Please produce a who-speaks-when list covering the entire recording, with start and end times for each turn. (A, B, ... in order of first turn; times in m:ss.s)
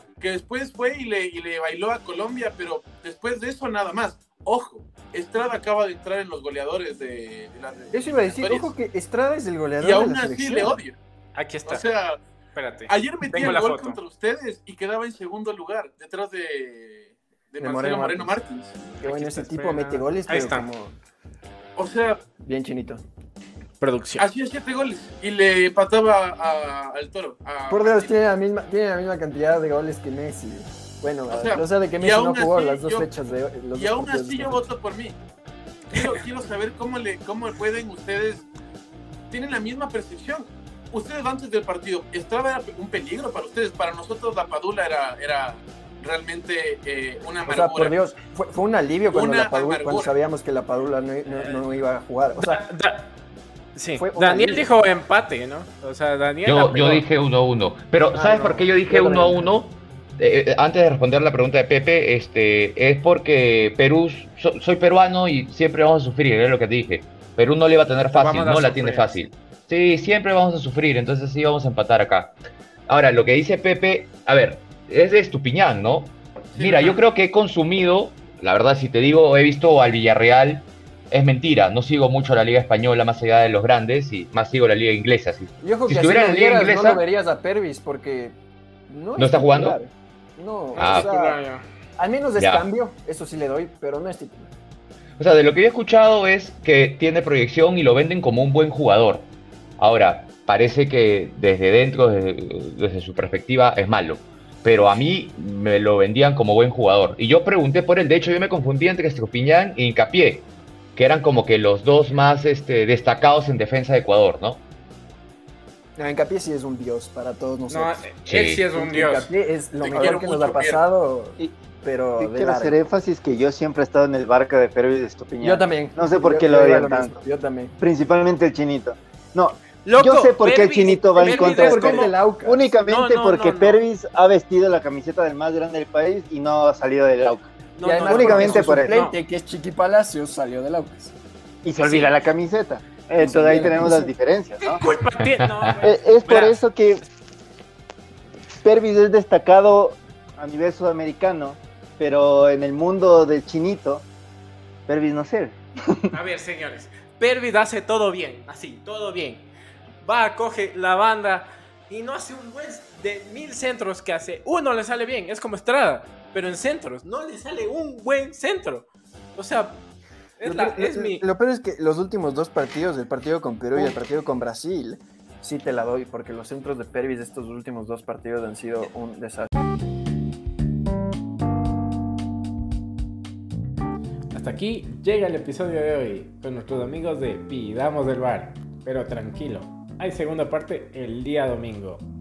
0:00.2-0:08.7 A
0:07.9-0:10.8 B
0:09.8-0:11.0 A
0:11.3-0:11.8 C
0:11.6-0:12.2 A
0:12.5-0:14.0 C
0:12.9-0:18.8 A
0:17.6-0:18.4 B
0:19.0-0:20.7 C
0:19.0-0:20.9 B
0:21.8-0:22.2 A
0:22.4-0:23.0 B
0:23.8-0:24.3 C
0:24.2-0:28.1 A
0:27.7-0:34.7 B
0:31.3-0:33.1 A
0:33.7-0:35.2 A
0:35.9-0:38.5 A
0:39.3-0:48.0 A
0:47.4-0:52.6 B
0:49.1-0:50.1 A
0:52.4-0:53.1 C
0:53.7-0:57.1 C
0:54.0-0:54.7 B
0:56.4-1:12.3 D
0:58.2-0:59.4 B
0:58.2-0:59.1 C
1:08.1-1:09.2 C
1:12.9-1:27.0 D
1:16.5-1:17.0 C
1:25.6-1:28.4 B
1:28.9-1:31.4 B
1:29.2-1:29.8 D
1:30.7-1:31.6 C
1:30.8-1:31.1 D
1:32.0-1:34.5 B
1:32.4-1:32.7 D
1:35.2-1:54.6 D
1:56.0-1:58.0 B
1:57.7-1:59.3 C
1:58.2-1:58.6 D
1:58.7-2:02.8 B
1:59.8-2:00.8 A
2:02.2-2:07.2 E
2:05.4-2:07.8 B
2:07.8-2:18.9 E
2:09.8-2:12.1 C
2:11.2-2:12.6 B
2:12.8-2:13.8 C
2:17.8-2:19.2 C
2:17.8-2:21.1 B
2:21.6-2:24.8 E
2:21.8-2:22.1 C
2:23.2-2:24.1 B
2:24.6-2:26.6 C
2:25.8-2:27.0 E
2:28.6-2:34.0 E
2:34.9-2:36.1 E
2:36.1-2:39.5 C
2:40.0-2:49.8 C
2:50.4-2:51.2 C
2:50.4-2:59.5 B
3:04.3-3:12.0 C